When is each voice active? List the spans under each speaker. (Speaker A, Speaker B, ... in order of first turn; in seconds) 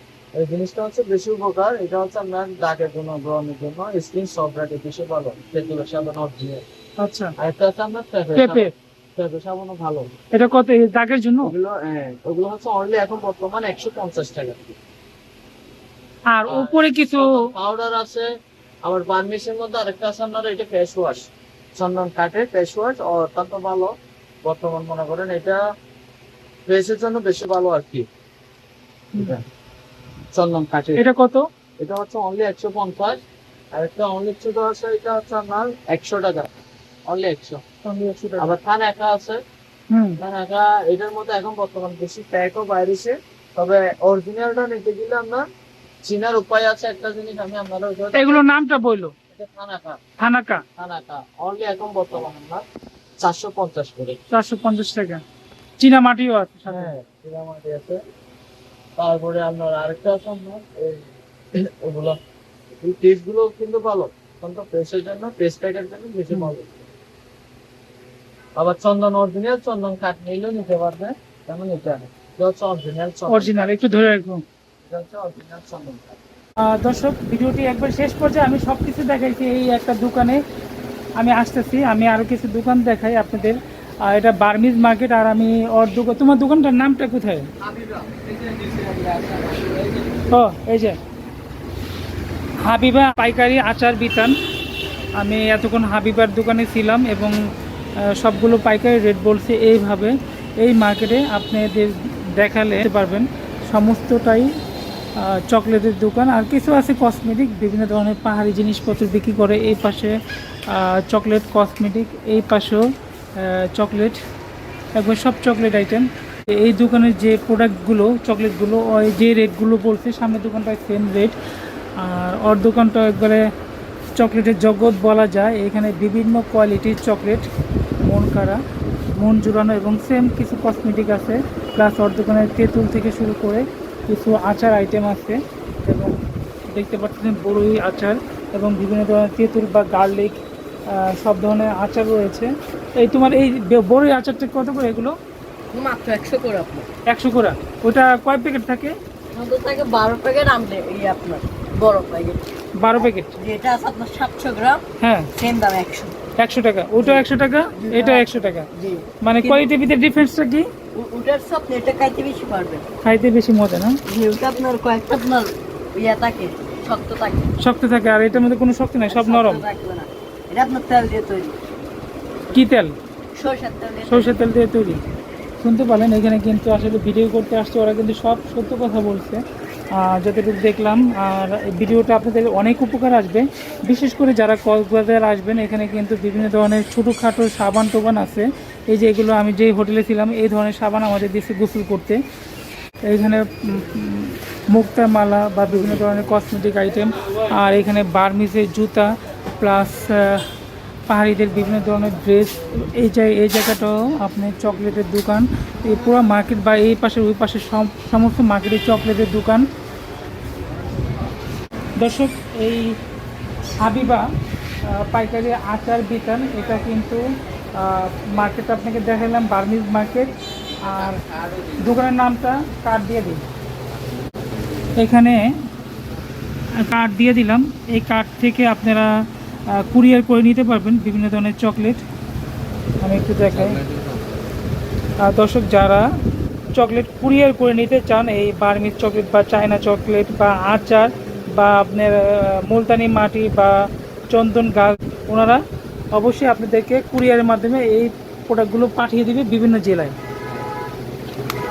Speaker A: 0.4-6.6, 7.4-10.1, 11.4-14.8, 16.5-18.3, 18.9-23.9, 24.4-25.6, 26.7-28.1, 29.2-29.4, 30.3-31.0, 31.8-33.2, 33.7-36.5, 37.1-37.7, 38.4-39.4, 40.2-45.5, 46.0-48.4, 49.3-50.0, 50.8-52.6, 53.2-54.2, 56.7-58.0, 59.0-62.2, 62.8-66.9, 68.6-73.8, 74.8-76.2, 87.6-90.4, 220.8-222.0, 233.5-234.4
Speaker B: 7.0-7.3, 8.4-8.7, 10.3-11.5, 16.3-17.3, 31.0-31.4, 37.8-38.6, 39.9-40.2, 48.1-49.1, 50.2-50.6, 54.3-55.2, 55.8-56.9, 73.3-74.4, 76.7-80.4, 81.2-87.5, 90.3-91.0, 92.6-94.4, 95.2-97.4, 98.0-104.5, 105.2-110.2, 110.7-112.8, 113.4-114.2, 115.0-121.4, 122.0-123.4, 124.2-127.5, 128.0-128.6, 129.2-136.2, 136.7-140.4, 140.9-145.2, 147.1-148.9, 152.8-153.3, 155.0-155.3, 156.4-158.7, 159.2-160.7, 163.0-164.0, 167.6-169.6, 172.5-172.9, 174.1-175.0, 175.6-179.4, 179.9-192.2, 193.1-200.4, 201.1-209.7, 212.0-213.0, 213.8-214.2, 214.9-217.2, 217.8-220.3, 220.9-221.2, 221.8-223.4, 225.0-225.4, 226.8-229.1, 229.7-232.0, 233.0-233.8, 235.2-236.1, 236.8-243.8, 244.3-245.6, 246.1-250.2
Speaker C: 145.7-146.9, 149.3-152.4, 153.0-154.8, 155.3-156.2, 156.9-159.7, 160.9-162.8, 164.1-167.5, 169.1-171.6, 173.3-174.5